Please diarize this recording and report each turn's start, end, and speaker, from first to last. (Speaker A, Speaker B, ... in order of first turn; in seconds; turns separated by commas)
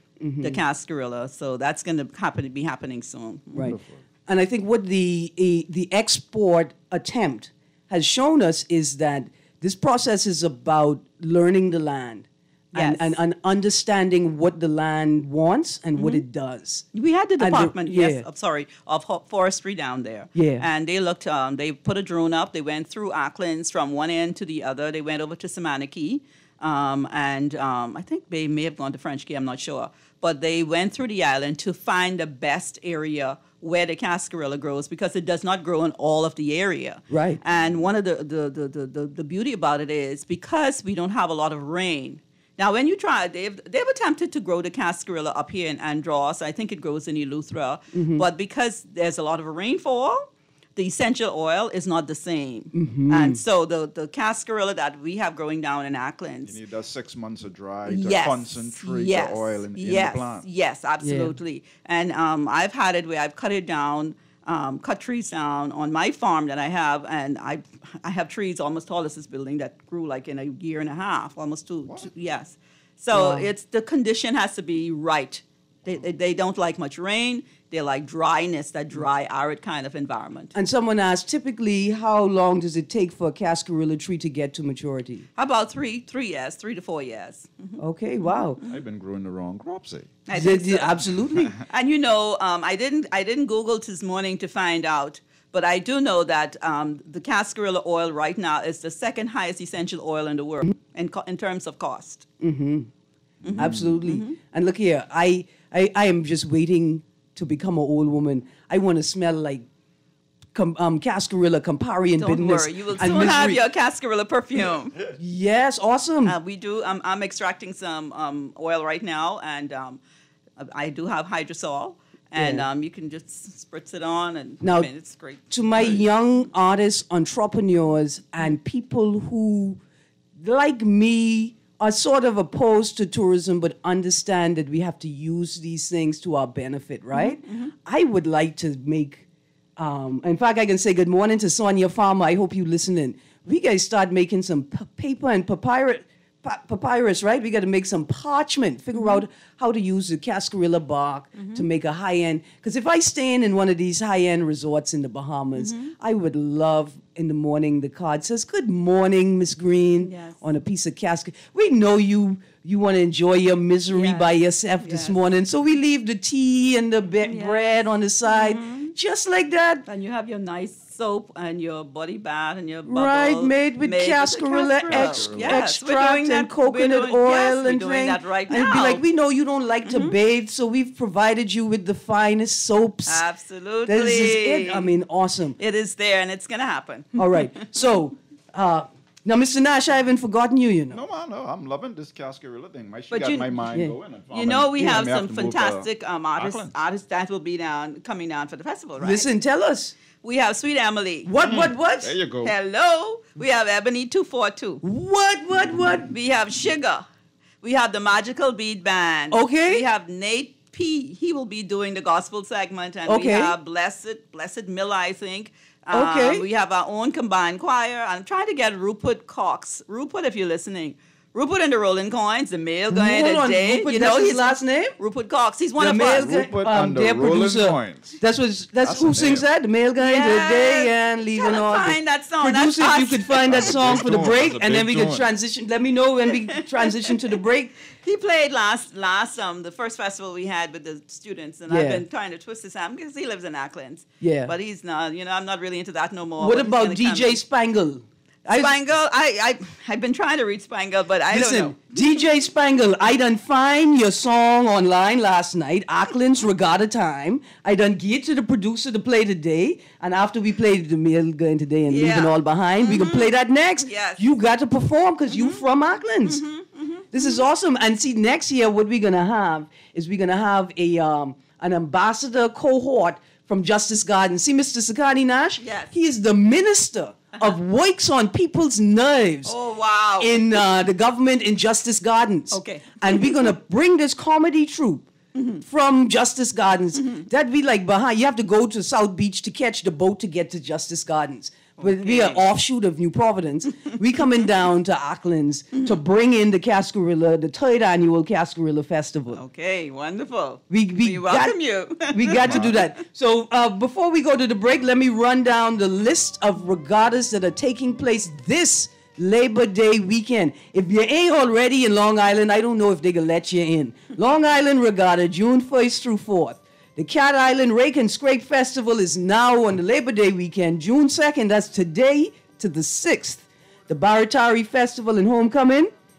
Speaker A: 0.2-0.6, Speaker B: 0.4-3.8, Speaker A: 3.5-16.9, Speaker B: 12.8-13.2, Speaker B: 16.0-16.2, Speaker B: 16.9-56.6, Speaker A: 17.4-18.2, Speaker A: 20.4-20.7, Speaker A: 37.1-37.4, Speaker A: 47.9-48.2, Speaker A: 52.7-53.4, Speaker C: 56.5-60.5, Speaker B: 57.9-80.5, Speaker A: 61.0-61.4, Speaker A: 73.1-73.5, Speaker A: 80.5-85.3, Speaker B: 85.4-87.8, Speaker A: 87.8-88.6, Speaker C: 88.6-90.2, Speaker B: 90.3-91.0, Speaker A: 90.3-91.5, Speaker B: 91.6-102.3, Speaker A: 102.4-102.9, Speaker B: 103.4-104.4, Speaker A: 103.5-109.7, Speaker C: 103.6-104.0, Speaker A: 110.5-113.6, Speaker B: 112.2-115.0, Speaker A: 115.2-116.4, Speaker B: 116.2-120.0, Speaker B: 120.6-126.0, Speaker A: 122.4-122.7, Speaker A: 124.6-124.9, Speaker A: 125.5-129.8, Speaker A: 130.4-139.3, Speaker B: 137.1-137.7, Speaker A: 139.8-169.8, Speaker B: 148.9-149.2, Speaker B: 151.4-151.6, Speaker B: 155.6-155.9, Speaker B: 160.0-160.4, Speaker B: 163.9-165.2, Speaker B: 167.2-168.9, Speaker B: 169.9-179.0, Speaker A: 172.9-183.2, Speaker C: 174.9-175.6, Speaker B: 179.9-180.1, Speaker B: 183.1-184.9, Speaker A: 183.9-185.6, Speaker B: 185.6-187.7, Speaker A: 187.2-191.0, Speaker C: 190.9-196.7, Speaker B: 193.1-193.5, Speaker A: 193.7-194.0, Speaker B: 194.3-199.3, Speaker A: 194.8-195.1, Speaker A: 199.0-200.0, Speaker B: 200.2-201.3, Speaker A: 201.2-202.2, Speaker C: 201.4-202.5, Speaker B: 202.4-204.8, Speaker A: 204.8-206.1, Speaker B: 206.1-207.1, Speaker B: 207.6-226.4, Speaker A: 209.3-209.8, Speaker A: 213.1-213.6, Speaker A: 215.9-216.4, Speaker A: 222.9-224.9, Speaker A: 225.8-237.7, Speaker C: 226.1-228.2, Speaker C: 228.8-229.5, Speaker B: 230.0-234.0, Speaker C: 233.5-235.3, Speaker B: 236.8-237.1, Speaker B: 238.0-247.4, Speaker A: 241.7-242.0, Speaker A: 244.2-244.5, Speaker A: 246.4-248.8, Speaker B: 248.5-252.0, Speaker A: 251.3-266.4, Speaker B: 261.9-263.3, Speaker B: 263.8-264.3, Speaker B: 265.3-265.6, Speaker B: 266.3-267.4, Speaker A: 267.1-279.5, Speaker B: 275.6-275.9, Speaker B: 279.4-280.5, Speaker A: 280.2-285.1, Speaker B: 282.5-283.5, Speaker B: 285.4-285.6, Speaker A: 285.6-299.4, Speaker B: 291.8-292.4, Speaker B: 299.3-302.8, Speaker A: 300.7-325.9